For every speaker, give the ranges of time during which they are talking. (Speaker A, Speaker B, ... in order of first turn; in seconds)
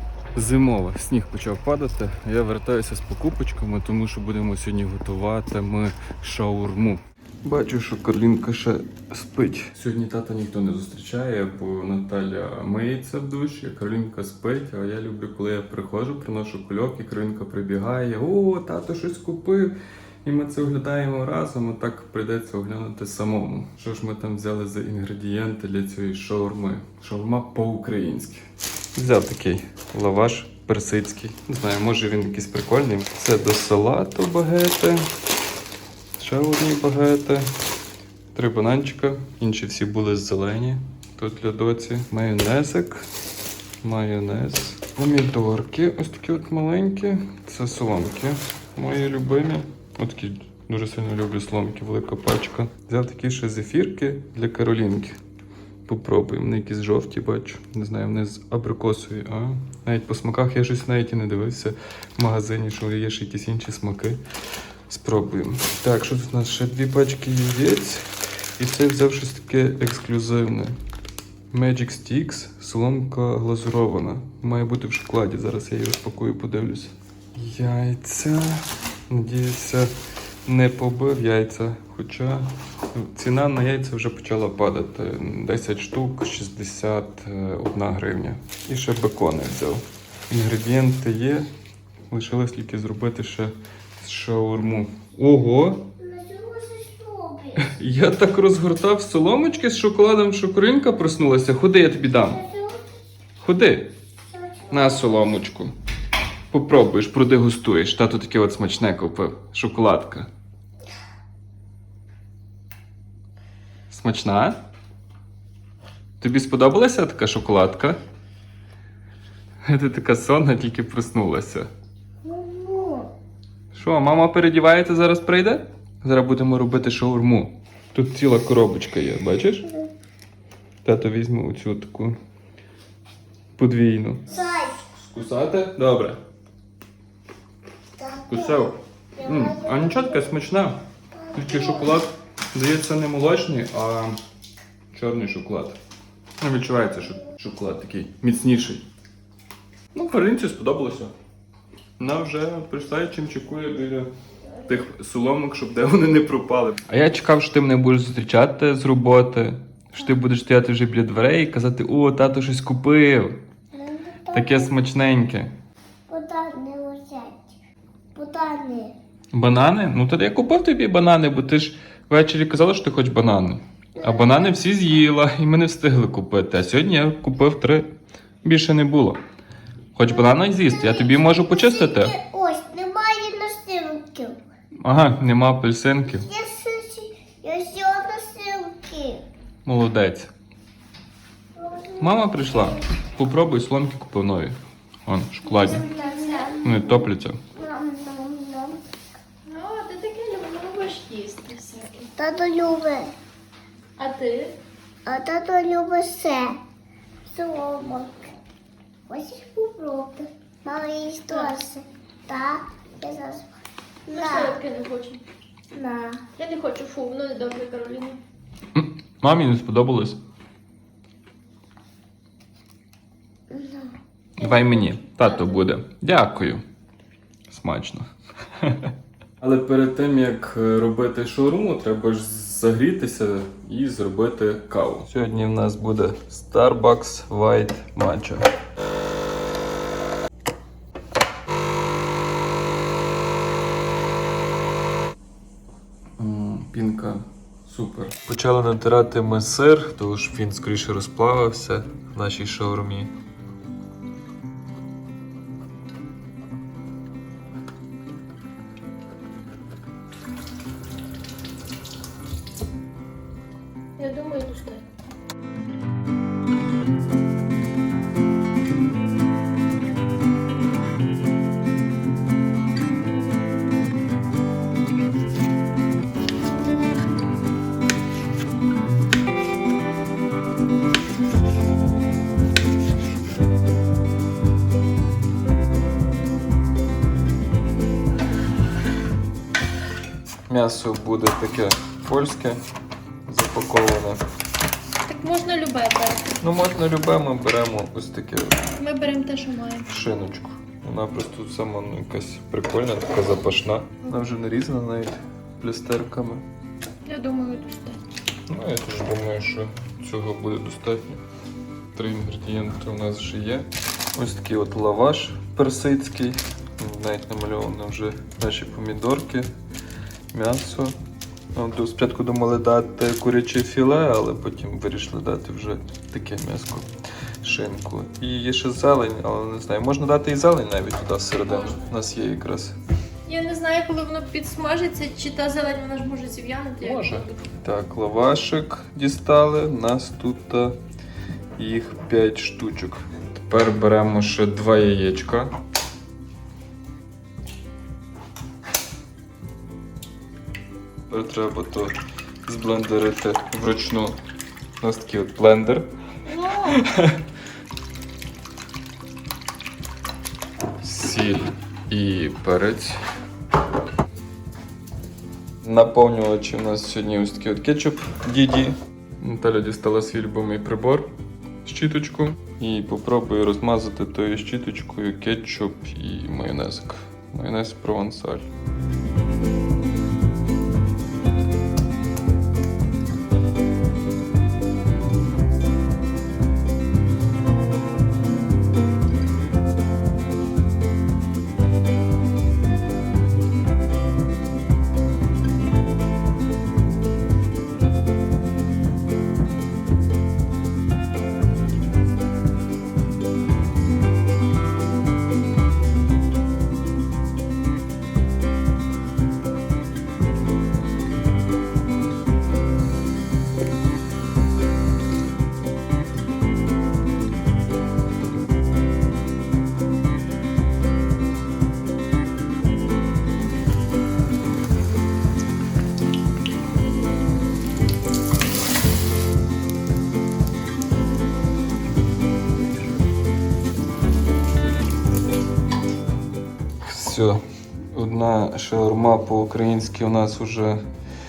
Speaker A: 0.3-28.4, 28.9-35.1, 36.1-37.5, 38.3-43.1, 43.8-55.1, 55.9-64.2, 64.9-68.0, 68.6-70.8, 71.5-79.9, 80.5-91.5, 92.1-95.9, 97.6-102.4, 103.4-103.9, 104.7-105.7, 106.5-110.3, 113.9-114.6, 116.2-118.0, 119.6-121.7, 123.7-129.7, 130.8-132.2, 133.6-134.2, 135.0-136.2, 138.3-140.8, 141.3-144.2, 144.9-145.8, 146.4-148.8, 149.9-151.1, 152.0-154.1, 154.7-163.4, 164.3-165.5, 169.3-177.9, 178.4-179.2, 179.9-182.2, 184.8-186.3, 189.6-190.3, 192.0-195.9, 196.6-197.4, 218.7-220.2, 224.4-226.6, 227.5-238.5, 246.2-253.1, 290.5-292.6, 293.2-294.2, 296.4-298.6, 299.9-306.4, 308.5-311.2, 311.9-319.5, 320.3-321.0, 321.5-326.9, 327.4-332.8, 336.8-340.8, 341.6-345.5, 351.1-351.9, 352.4-354.2, 354.8-355.9, 356.7-357.2, 360.8-363.0, 365.6-371.1, 371.6-378.5, 436.8-440.8
Speaker B: 96.0-97.7, 102.2-102.8, 104.3-105.1, 122.2-123.1, 134.3-134.9, 138.0-140.2, 141.1-142.0, 163.7-164.7, 166.1-167.5, 168.1-168.9, 174.0-174.5, 180.4-184.4, 186.1-189.2, 191.6-192.4, 195.6-198.8, 202.2-203.1, 205.1-206.6, 207.3-208.1, 209.1-213.5, 214.1-214.6, 215.7-216.2, 223.5-223.9
Speaker C: 196.0-196.6, 199.5-202.1, 204.0-204.5, 211.3-211.6, 214.1-215.2, 216.4-218.2, 224.4-225.6, 264.0-264.8, 295.1-296.4, 298.8-299.9, 307.1-308.0, 331.4-331.8, 333.2-337.4